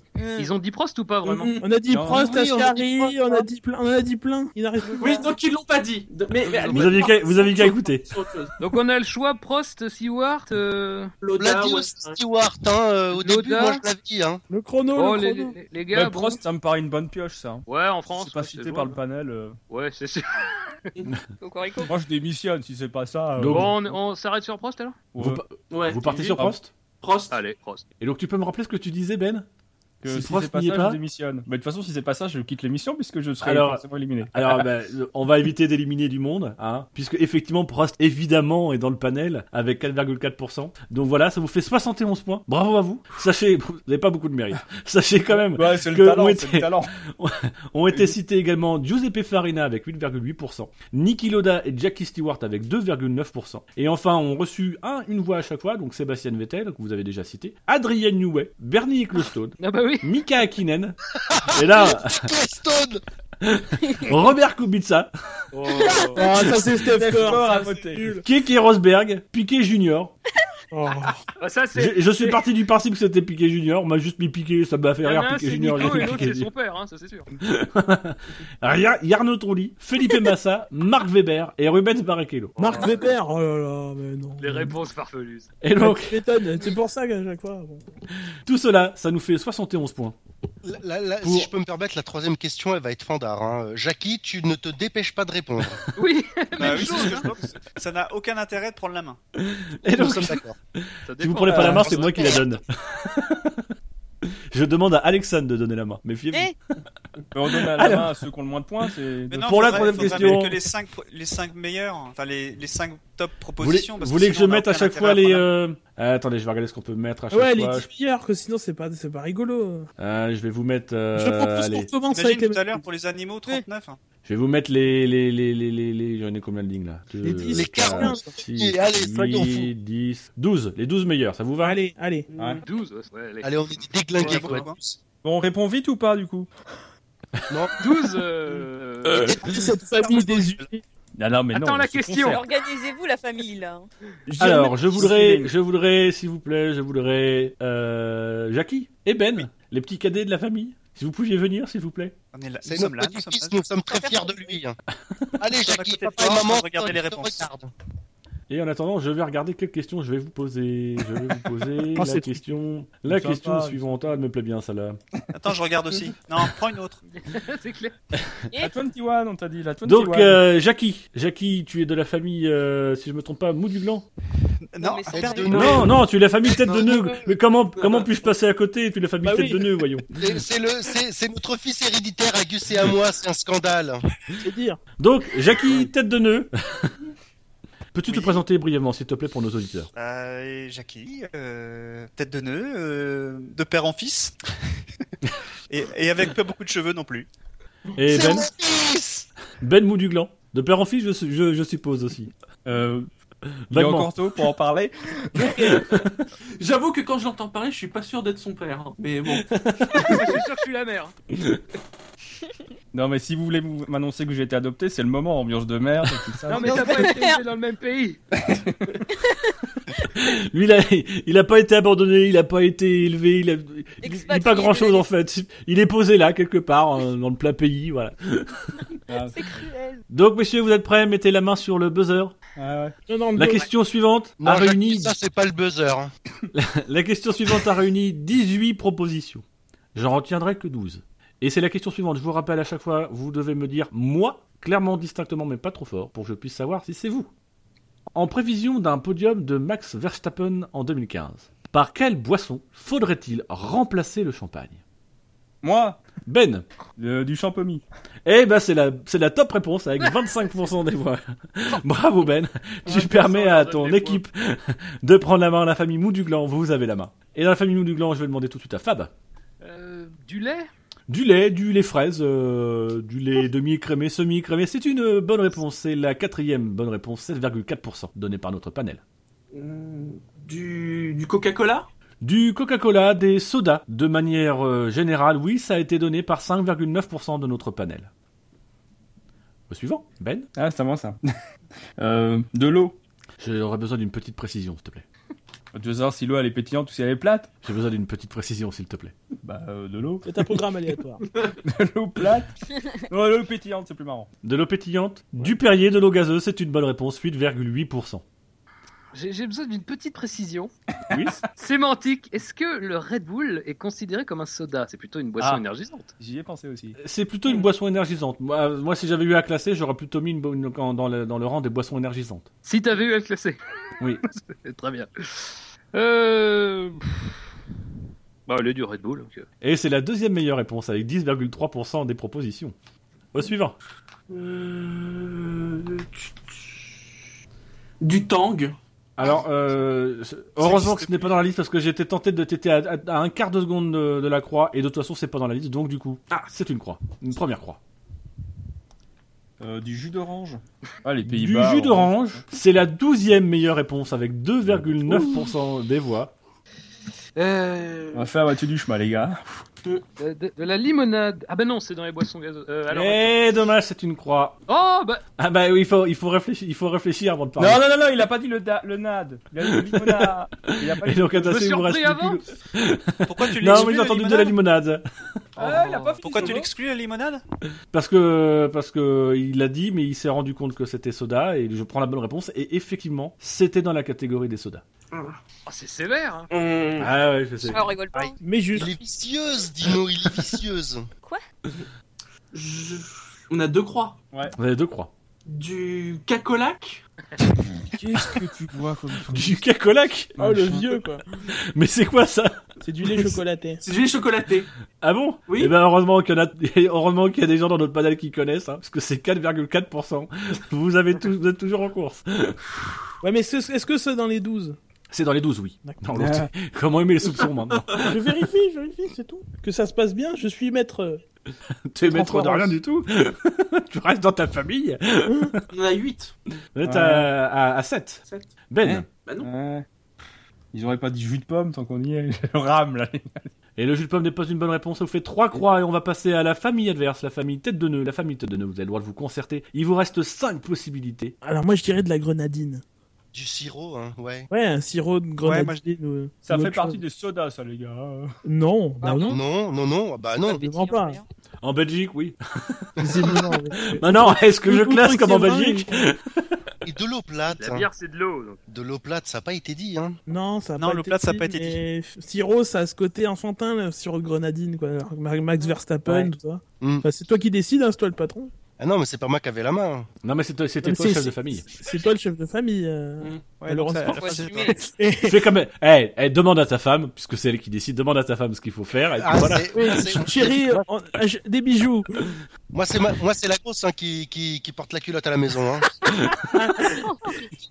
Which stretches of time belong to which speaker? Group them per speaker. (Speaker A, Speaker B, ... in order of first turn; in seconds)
Speaker A: 0.2-0.5, 21.4-21.9, 65.8-66.1, 142.2-143.9, 153.9-154.6, 168.5-168.8, 174.8-175.8, 216.5-217.4, 219.2-219.5, 224.0-225.1, 229.2-230.0, 387.6-388.4, 449.0-449.4, 450.5-451.2, 474.0-474.8, 486.9-487.4
Speaker B: 0.4-1.6, 8.6-11.1, 13.1-13.8, 15.0-16.4, 17.7-19.0, 19.7-20.5, 23.5-25.1, 27.3-27.8, 59.6-60.1, 65.5-66.4, 71.4-72.4, 75.0-77.3, 82.6-83.1, 84.4-85.5, 96.0-97.3, 101.1-102.2, 132.6-134.7, 137.8-139.4, 141.5-142.4, 167.1-167.9, 210.0-211.1, 216.5-218.2, 262.9-264.2, 269.6-270.7, 309.1-310.7, 311.6-316.1, 322.6-323.6, 324.3-327.4, 328.5-329.4, 357.4-358.3, 360.2-363.4, 364.7-365.2, 371.5-372.4, 375.6-376.6, 385.7-386.5, 457.6-458.6
Speaker C: 1.3-1.6, 5.0-8.5, 11.2-12.2, 25.7-26.4, 27.0-27.4, 177.8-178.1, 206.6-210.3, 279.5-281.9, 334.3-336.9, 338.0-338.8, 386.5-387.1, 392.5-394.2, 395.5-397.0, 403.8-404.7, 405.5-405.7, 425.7-426.3, 428.3-428.5, 429.1-429.5
Speaker D: 1.6-5.3, 14.5-15.6, 66.1-68.2, 70.7-71.2, 82.6-84.8, 85.8-87.8, 117.3-119.9, 121.2-122.8, 127.2-128.3, 131.6-132.3, 139.4-140.8, 144.3-145.4, 161.9-162.4, 179.2-179.7, 184.4-184.8, 233.1-233.7, 300.2-301.2, 388.4-388.9, 400.4-401.2, 402.8-403.8, 413.2-414.8, 418.0-421.2, 422.1-422.8, 441.4-442.8, 444.5-447.0, 448.4-449.4, 450.6-451.2, 453.0-456.0, 460.3-468.5, 470.8-475.4, 479.7-482.1, 486.6-487.3
Speaker E: 1.9-2.4, 15.9-19.6, 21.9-23.9, 25.1-25.4, 30.0-34.7, 45.3-46.9, 66.8-68.2, 101.5-101.9, 107.3-110.5, 132.4-132.6, 135.2-136.5, 141.2-142.4, 145.0-145.4, 163.1-163.9, 168.6-170.4, 202.7-203.1, 203.7-205.8, 212.9-217.0, 218.3-219.0, 229.1-229.7, 232.6-232.9, 255.6-256.0, 257.0-257.8, 290.6-291.2, 292.0-293.0, 295.7-297.5, 299.4-300.5, 301.6-302.5, 303.1-304.3, 316.2-317.0, 349.6-352.4, 355.1-355.4, 358.1-359.6, 367.6-371.6, 375.6-376.7, 397.9-399.6, 400.4-401.0, 416.1-416.5, 426.8-427.3, 428.8-429.9, 430.7-433.5, 446.4-448.3
Speaker F: 2.2-3.1, 11.3-14.4, 61.3-63.0, 90.6-95.8, 99.9-100.6, 101.8-102.4, 127.5-129.7, 133.4-135.0, 139.4-140.6, 152.7-154.8, 155.4-157.7, 175.1-175.9, 180.2-184.0, 198.1-199.3, 234.4-236.1, 388.7-391.1, 443.3-444.5, 449.3-450.6, 456.9-457.9, 458.7-460.2, 468.8-470.1, 479.2-480.8, 482.7-485.9
Speaker G: 6.7-8.1, 23.4-23.7, 25.2-26.7, 28.0-29.5, 30.1-31.0, 33.4-61.0, 61.5-62.3, 63.4-65.1, 68.2-70.1, 71.8-76.5, 77.4-82.7, 85.6-86.2, 88.5-90.2, 91.2-91.5, 99.4-103.7, 104.5-106.5, 107.5-108.2, 109.4-110.6, 113.6-117.9, 120.0-121.9, 124.2-131.8, 144.4-152.2, 158.5-165.0, 169.8-174.1, 175.5-180.3, 185.0-186.9, 187.9-189.9, 198.0-198.5, 199.6-202.3, 203.7-204.1, 205.6-206.1, 209.5-210.2, 220.2-228.9, 230.1-232.3, 233.4-235.2, 236.5-239.4, 239.9-247.3, 248.1-254.8, 256.3-256.6, 258.2-269.1, 271.1-279.0, 282.2-288.1, 289.7-290.5, 293.4-295.1, 297.6-299.1, 304.4-308.2, 311.1-311.4, 317.0-322.5, 329.6-332.8, 333.3-333.8, 339.2-347.8, 351.3-356.3, 362.9-364.6, 365.4-367.8, 369.8-375.0, 377.9-384.8, 387.0-387.9, 394.6-395.1, 399.3-400.3, 401.7-402.6, 405.0-412.8, 415.1-418.2, 421.9-425.6, 426.8-429.1, 433.8-441.4, 451.6-456.2, 470.2-471.6, 475.3-480.2, 486.1-486.4
Speaker H: 96.6-99.2, 109.3-115.5, 122.1-124.0, 134.2-134.8, 152.3-153.6, 155.5-157.6, 165.3-167.0, 174.7-175.6, 188.1-188.4, 189.9-194.4, 195.7-197.3, 340.7-341.3, 373.3-374.6, 376.2-377.4, 445.4-445.8, 460.8-461.8, 473.6-474.8